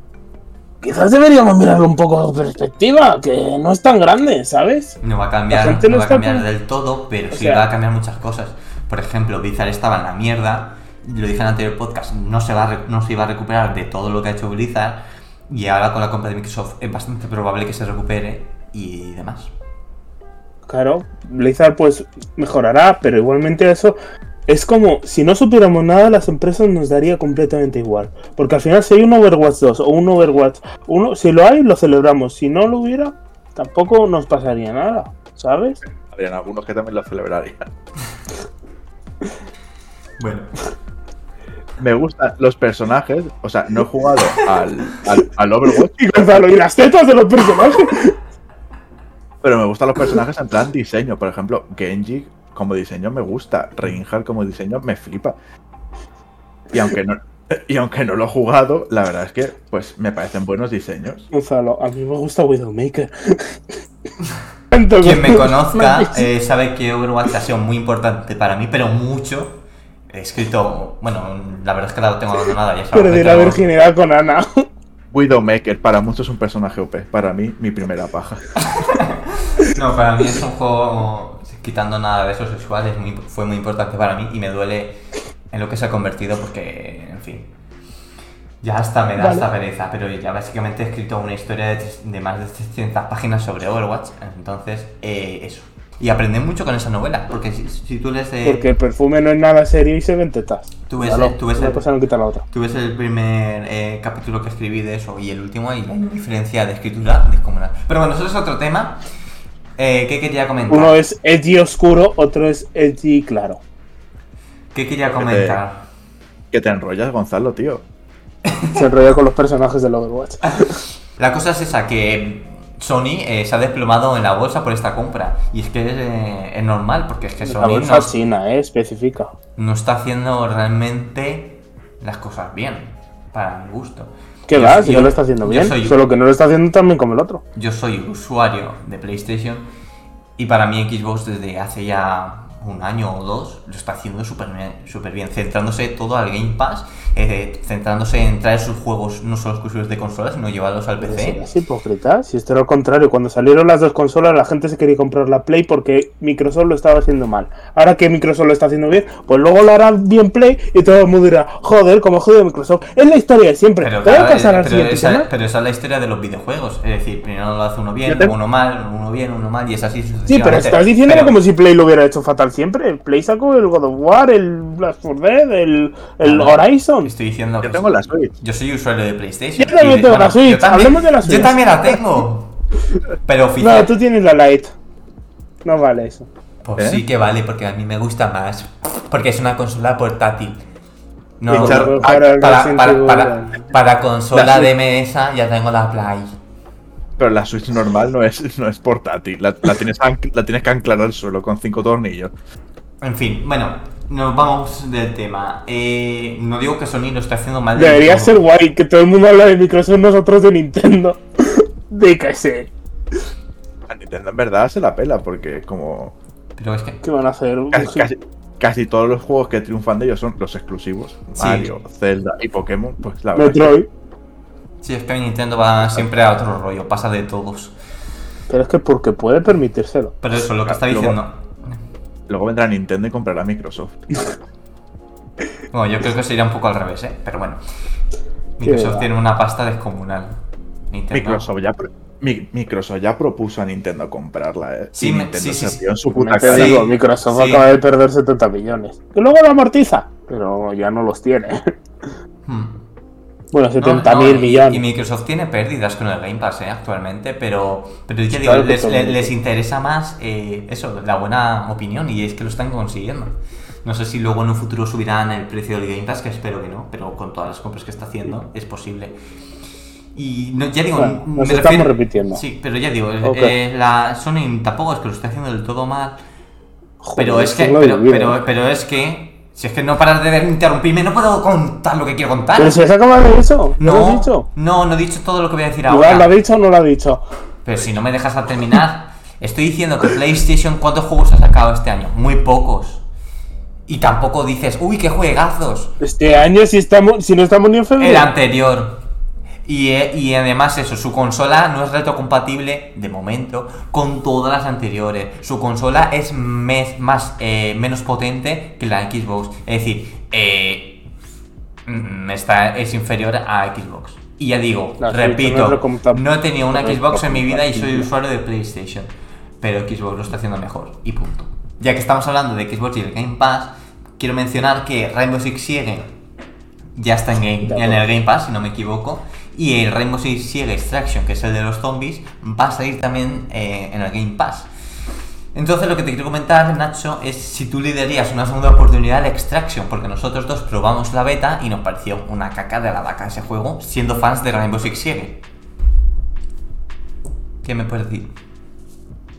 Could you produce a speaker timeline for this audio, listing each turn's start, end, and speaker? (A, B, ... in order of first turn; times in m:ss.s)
0:00.8-0:05.0 A
0:05.0-0:19.5 B
0:05.5-0:06.4 A
0:07.3-0:07.6 A
0:20.7-0:24.0 A
0:24.5-0:35.8 A
0:36.0-0:37.7 C
0:40.2-0:40.5 B
0:41.8-0:46.5 C
0:46.0-0:48.2 A
0:49.4-0:55.4 C
0:56.7-1:01.3 C
1:01.3-1:03.8 A
1:04.7-1:06.3 A
1:05.0-1:09.6 B
1:10.1-1:13.6 B
1:12.9-1:14.7 A
1:15.1-1:18.5 C
1:18.6-1:25.0 B
1:25.5-1:27.5 B
1:28.6-1:38.7 B
1:29.2-1:29.5 A
1:38.4-1:42.4 A
1:40.9-1:41.9 B
1:42.5-1:49.0 B
1:49.8-1:50.9 B
1:50.7-1:53.6 A
1:54.7-1:55.8 B
1:55.2-1:55.6 C
1:56.5-1:57.8 C
1:58.4-1:58.8 B
1:58.7-2:00.8 A
2:01.2-2:08.1 B
2:07.4-2:09.3 A
2:09.6-2:16.0 B
2:14.5-2:17.4 A
2:17.6-2:19.7 B
2:20.4-2:31.4 B
2:31.0-2:45.3 A
2:43.8-2:51.4 B
2:48.1-2:48.3 A
2:50.3-2:57.1 A
2:56.2-3:02.6 B
2:57.6-2:58.3 C
2:59.6-3:02.0 A
3:03.3-3:03.9 B
3:03.6-3:04.7 A
3:05.6-3:06.3 A
3:06.6-3:10.6 B
3:06.8-3:07.0 C
3:11.4-3:16.3 B
3:11.5-3:13.7 A
3:11.5-3:12.2 C
3:14.3-3:14.7 C
3:17.2-3:22.3 C
3:23.0-3:28.4 B
3:27.8-3:32.7 A
3:33.9-3:36.2 C
3:36.6-3:37.0 B
3:37.0-3:38.1 A
3:37.7-3:43.8 C
3:41.3-3:41.7 B
3:43.4-3:43.9 A
3:44.8-3:47.7 B
3:48.5-3:50.2 A
3:50.2-3:51.8 B
3:50.7-3:51.2 C
3:52.3-3:54.1 C
3:55.7-3:57.6 B
3:58.6-4:00.4 B
3:58.6-3:59.1 A
4:00.9-4:01.4 B
4:01.1-4:06.8 C
4:05.0-4:07.8 B
4:06.1-4:11.7 A
4:12.5-4:12.8 B
4:13.5-4:14.8 A
4:13.8-4:29.2 B
4:18.3-4:19.3 A
4:30.2-4:36.2 B
4:31.0-4:32.4 A
4:33.2-4:33.5 A
4:37.0-4:38.4 A
4:37.2-4:42.8 B
4:42.6-4:44.5 A
4:43.8-4:46.3 B
4:45.9-4:47.2 A
4:47.6-4:53.0 B
4:53.9-4:55.9 B
4:56.0-4:58.3 A
4:58.0-4:59.0 B
4:59.6-5:11.0 B
5:11.9-5:26.1 B
5:15.0-5:18.1 A
5:27.0-5:34.7 B
5:27.6-5:28.0 A
5:35.5-5:45.4 B
5:47.6-5:48.3 B